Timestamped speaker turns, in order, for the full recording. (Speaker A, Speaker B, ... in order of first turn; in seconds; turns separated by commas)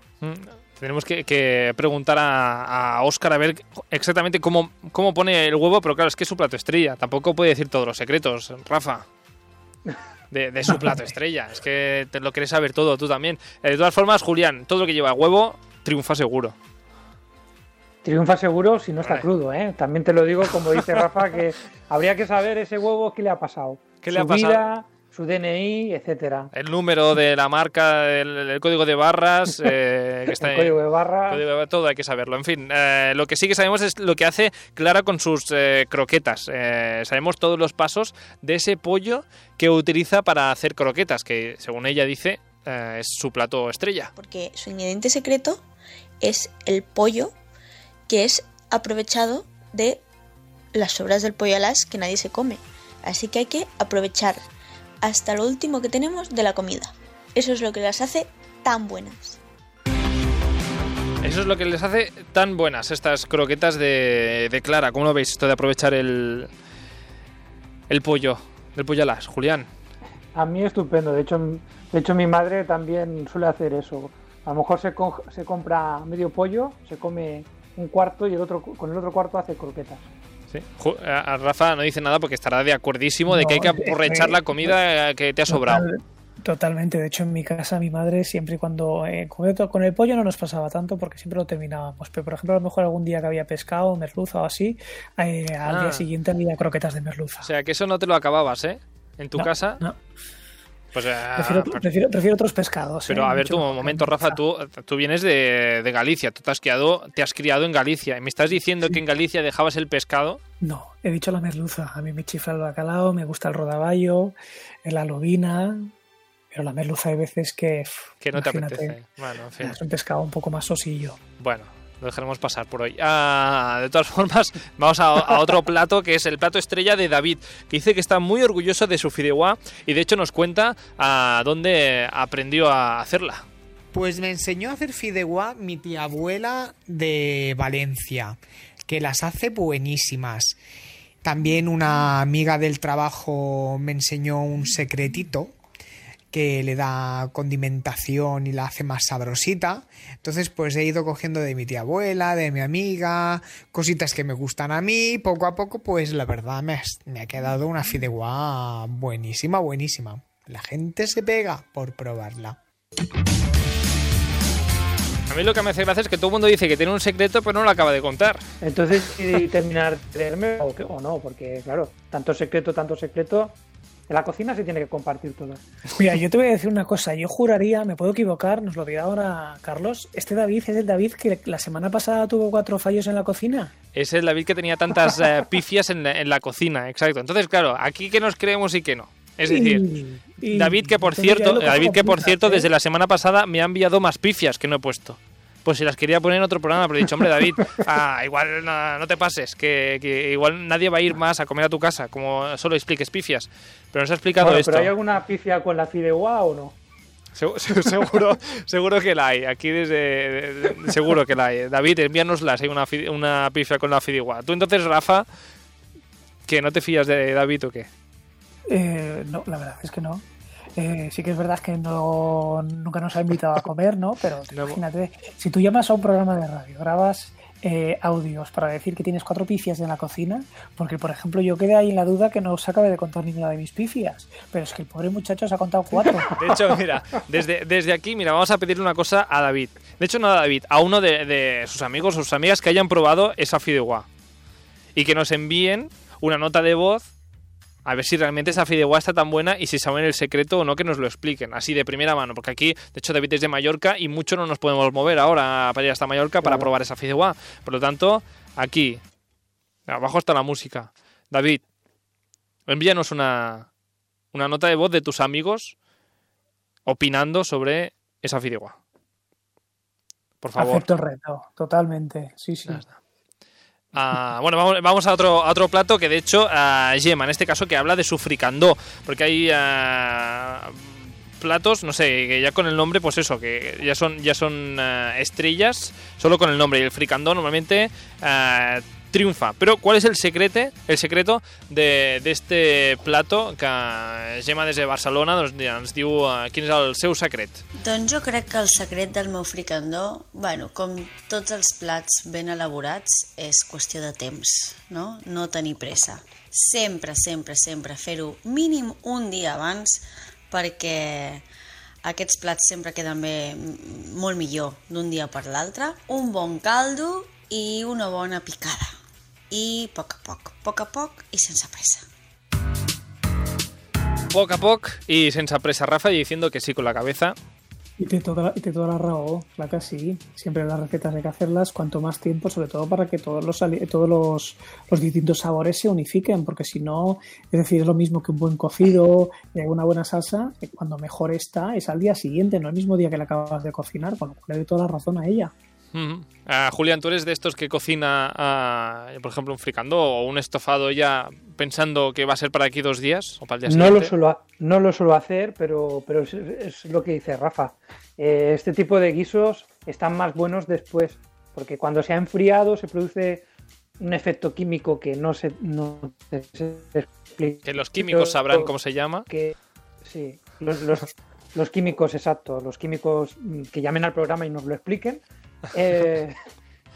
Speaker A: 0.2-9.1, Speaker A: 10.3-16.6, Speaker B: 10.7-11.1, Speaker C: 18.0-26.5, Speaker A: 24.0-24.6, Speaker A: 26.5-30.8, Speaker C: 30.3-31.4, Speaker A: 31.3-44.1, Speaker D: 44.2-45.6, Speaker D: 46.2-47.3, Speaker D: 48.1-50.0, Speaker D: 50.7-54.5, Speaker D: 55.0-59.4, Speaker A: 61.2-66.5, Speaker A: 67.9-69.7, Speaker C: 70.3-80.1, Speaker A: 80.5-85.9, Speaker B: 83.3-84.7, Speaker B: 85.5-97.5, Speaker A: 95.7-96.1, Speaker A: 97.4-99.8, Speaker B: 99.3-100.0, Speaker A: 100.9-101.9, Speaker B: 101.4-104.4, Speaker A: 103.1-110.4, Speaker B: 110.6-115.9, Speaker B: 116.5-119.0, Speaker A: 118.2-119.8, Speaker B: 119.6-121.2, Speaker A: 121.4-133.4, Speaker E: 133.9-140.6, Speaker E: 141.2-145.6, Speaker E: 146.3-162.6, Speaker A: 165.3-168.4, Speaker C: 168.6-173.6, Speaker C: 174.1-175.6, Speaker B: 175.9-183.7, Speaker A: 183.9-189.8, Speaker B: 189.4-192.7, Speaker A: 190.4-204.9, Speaker C: 204.4-206.7, Speaker A: 207.3-215.3, Speaker A: 216.4-217.9, Speaker B: 218.7-220.2, Speaker B: 220.8-236.3, Speaker A: 224.5-224.8, Speaker C: 236.3-236.6, Speaker A: 236.3-244.1, Speaker A: 244.9-247.1, Speaker A: 247.8-259.0, Speaker C: 256.4-256.7, Speaker A: 259.9-261.6, Speaker A: 262.7-263.7, Speaker A: 264.3-265.7, Speaker A: 266.9-268.8, Speaker A: 270.4-270.9, Speaker B: 270.6-272.8, Speaker A: 273.9-297.6, Speaker F: 297.7-311.4, Speaker F: 312.0-318.9, Speaker F: 319.5-322.1, Speaker A: 324.3-327.4, Speaker B: 328.0-345.5, Speaker A: 345.9-354.1, Speaker C: 353.7-363.4, Speaker C: 364.0-368.7, Speaker A: 367.6-369.3, Speaker C: 369.3-376.4